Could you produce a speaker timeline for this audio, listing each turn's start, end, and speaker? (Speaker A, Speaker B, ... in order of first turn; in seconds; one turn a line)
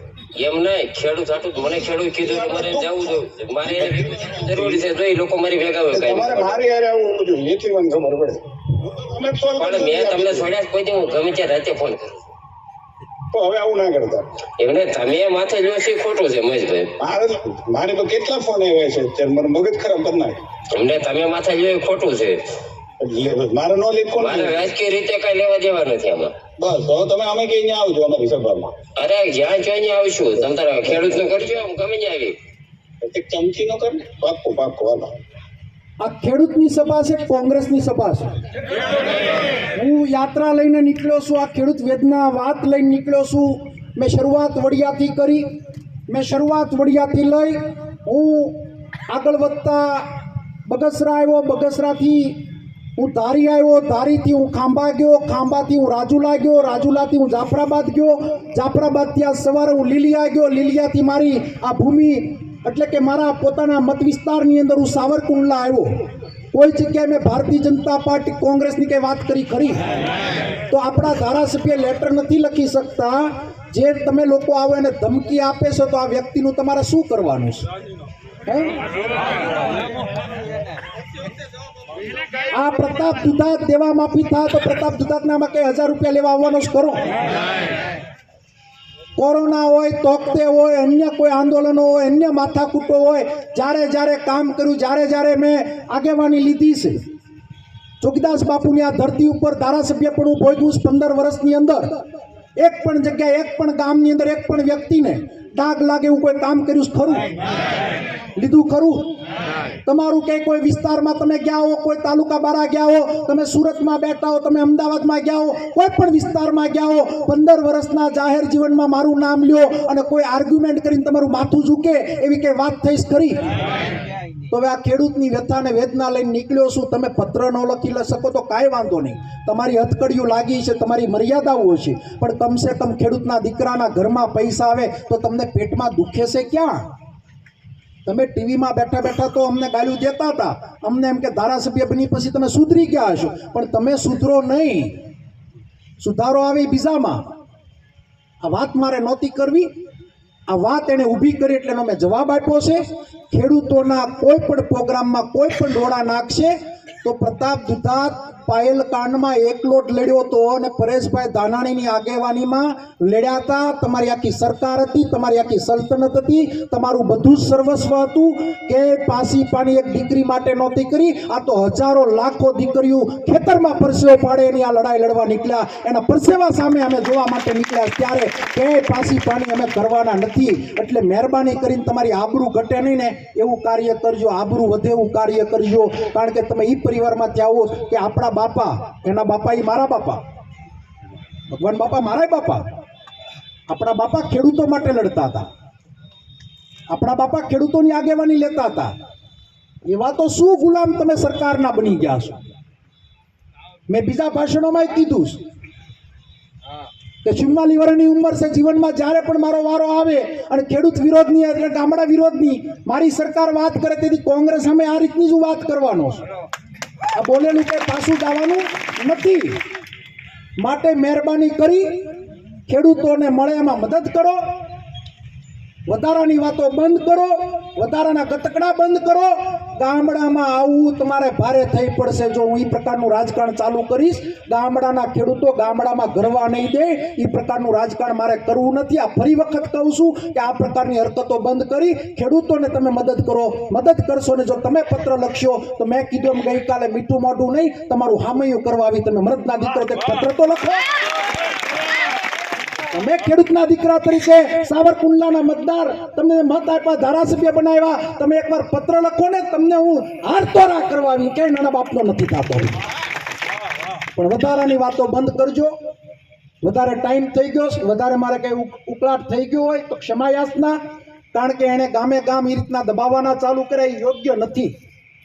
Speaker A: 0.4-6.6
Speaker B: 1.6-4.8
Speaker B: 5.9-10.5
Speaker A: 9.6-12.2
Speaker B: 13.3-14.2
Speaker A: 14.6-16.9
Speaker B: 17.0-20.4
Speaker A: 20.7-22.4
Speaker B: 23.0-24.7
Speaker A: 24.2-26.3
Speaker B: 26.6-28.7
Speaker A: 29.0-32.4
Speaker B: 33.0-35.1
Speaker C: 36.0-38.3
Speaker C: 39.7-45.4
Speaker C: 46.1-50.1
Speaker C: 50.6-52.4
Speaker C: 53.0-69.9
Speaker C: 70.7-77.7
Speaker C: 78.5-78.7
Speaker C: 82.5-87.1
Speaker C: 89.2-97.0
Speaker C: 98.0-101.9
Speaker C: 102.6-107.3
Speaker C: 108.3-109.1
Speaker C: 109.8-123.5
Speaker C: 124.5-136.8
Speaker C: 138.1-144.9
Speaker C: 146.0-147.2
Speaker C: 148.4-149.7
Speaker C: 150.5-190.2
Speaker C: 191.5-192.6
Speaker C: 193.7-195.5
Speaker C: 196.9-198.9
Speaker C: 199.8-202.4
Speaker C: 203.9-205.4
Speaker C: 207.2-216.2
Speaker C: 217.1-219.6
Speaker C: 220.6-221.9
Speaker C: 222.7-224.4
Speaker C: 225.9-250.9
Speaker C: 252.9-262.8
Speaker C: 264.1-265.7
Speaker C: 266.6-270.8
Speaker C: 271.3-274.7